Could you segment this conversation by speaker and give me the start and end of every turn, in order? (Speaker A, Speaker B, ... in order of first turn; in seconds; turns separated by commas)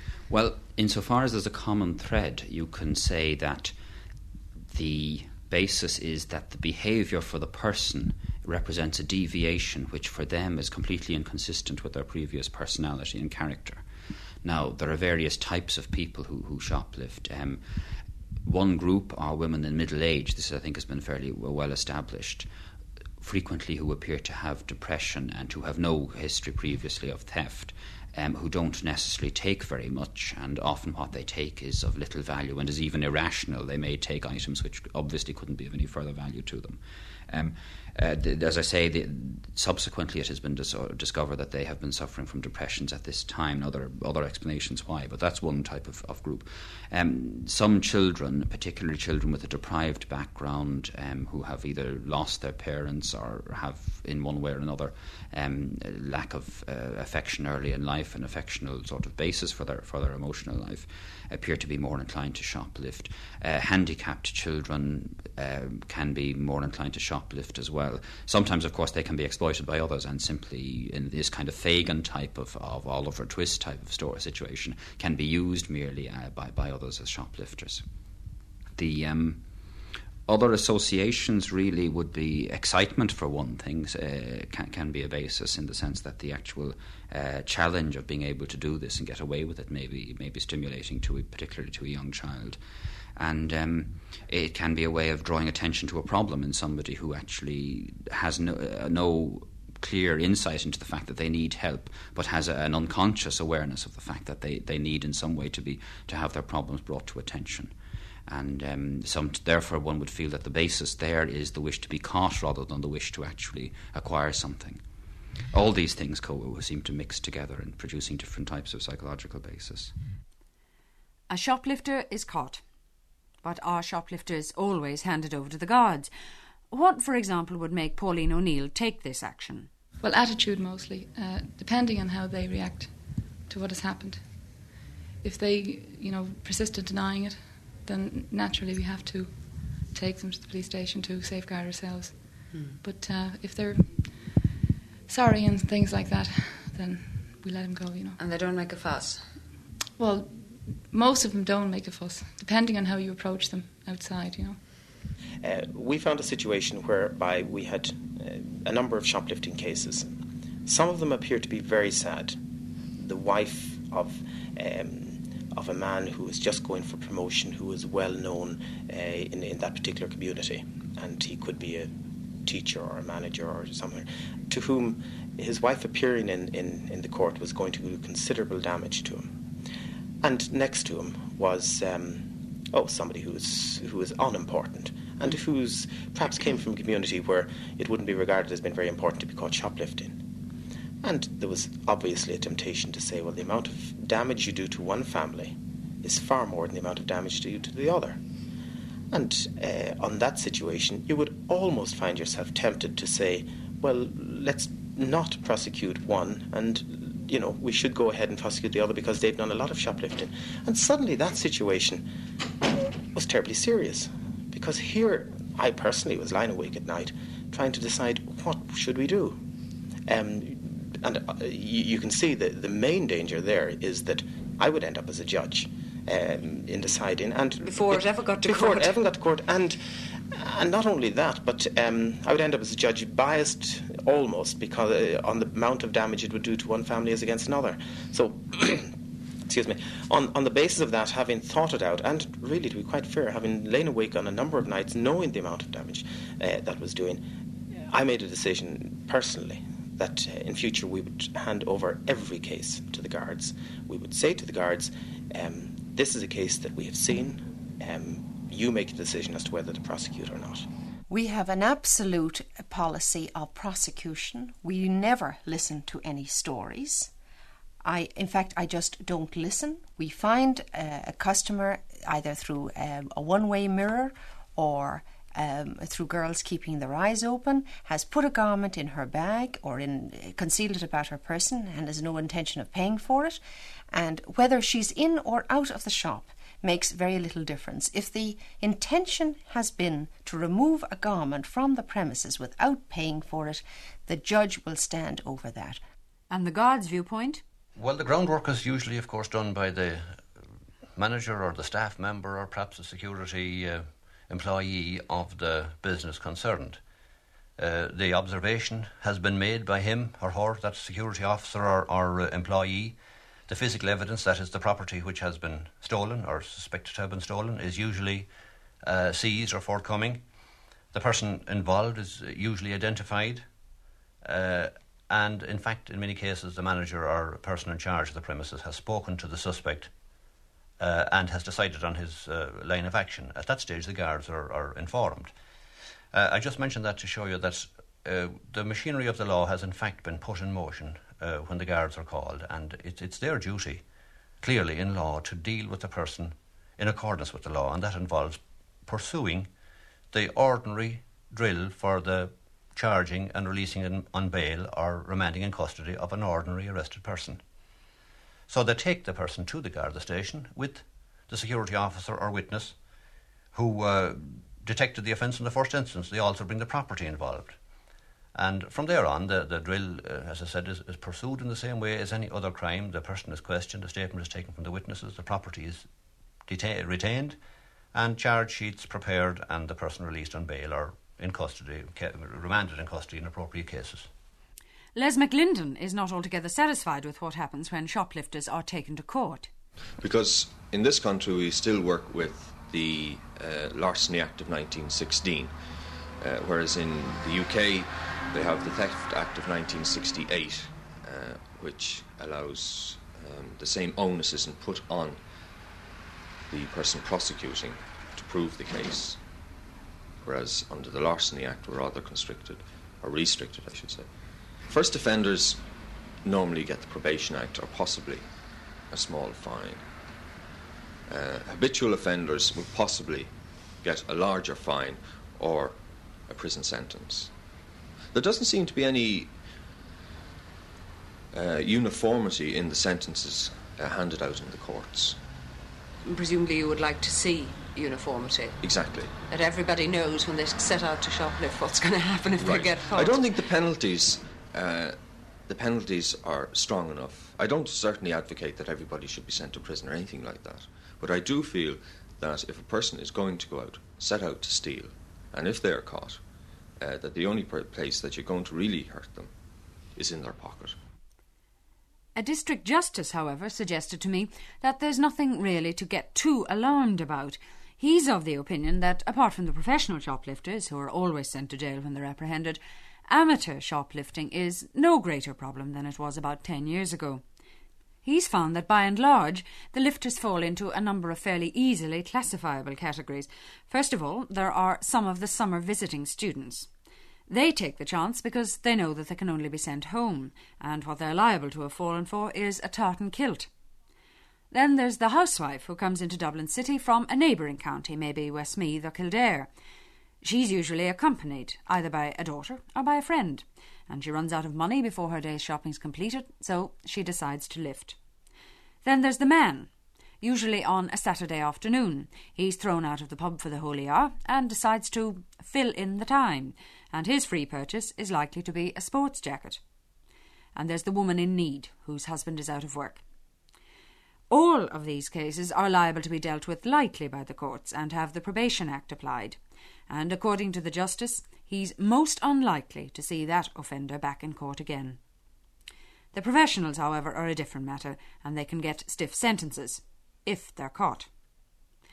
Speaker A: 0.3-3.7, Speaker A: 4.7-13.8, Speaker A: 14.4-22.5, Speaker A: 23.2-77.8, Speaker A: 78.7-79.5, Speaker A: 80.2-92.6, Speaker A: 93.2-107.7, Speaker A: 108.3-114.8, Speaker A: 115.5-119.9, Speaker B: 121.3-122.6, Speaker B: 123.4-126.1, Speaker B: 126.7-129.7, Speaker C: 130.0-134.7, Speaker C: 135.2-144.4, Speaker D: 142.5-142.8, Speaker C: 145.1-148.2, Speaker D: 148.2-149.3, Speaker C: 150.0-154.6, Speaker E: 155.4-160.1, Speaker E: 160.6-162.4, Speaker E: 163.0-171.9, Speaker E: 172.4-179.3, Speaker E: 180.2-190.2, Speaker E: 191.0-198.2, Speaker E: 199.1-212.0, Speaker E: 213.1-219.4, Speaker E: 220.1-229.8, Speaker D: 227.6-228.9, Speaker E: 230.3-238.9, Speaker E: 239.5-247.2, Speaker E: 247.8-260.6, Speaker F: 261.1-267.1, Speaker F: 267.8-283.4, Speaker F: 283.9-295.8, Speaker B: 296.3-297.4, Speaker G: 297.8-300.2, Speaker G: 300.9-306.8, Speaker G: 307.6-313.0, Speaker G: 313.5-318.3, Speaker G: 318.8-320.2, Speaker G: 320.9-323.5, Speaker G: 324.2-329.9, Speaker G: 330.8-335.3, Speaker G: 336.1-343.8, Speaker G: 344.4-349.5, Speaker G: 350.1-357.4, Speaker G: 358.5-362.7, Speaker G: 363.5-367.6, Speaker G: 368.3-375.8, Speaker G: 376.5-377.4, Speaker G: 377.9-384.1, Speaker B: 384.9-389.5, Speaker H: 390.0-395.5, Speaker H: 396.2-405.2, Speaker H: 406.5-409.2, Speaker H: 410.2-414.1, Speaker H: 414.7-415.6, Speaker H: 416.2-418.3, Speaker H: 418.9-419.8, Speaker H: 421.1-427.3, Speaker H: 428.1-429.4, Speaker H: 431.3-435.2, Speaker D: 436.0-438.6, Speaker H: 438.6-439.1, Speaker D: 439.3-443.3, Speaker H: 442.3-456.2, Speaker H: 456.8-459.3, Speaker H: 459.9-460.8, Speaker B: 462.1-477.2, Speaker B: 478.0-486.7, Speaker B: 487.3-493.5, Speaker B: 494.5-499.5, Speaker B: 500.2-507.9, Speaker B: 508.8-509.7, Speaker B: 510.2-519.6, Speaker B: 520.5-523.0, Speaker B: 524.3-529.4, Speaker B: 529.9-535.0, Speaker B: 536.1-541.1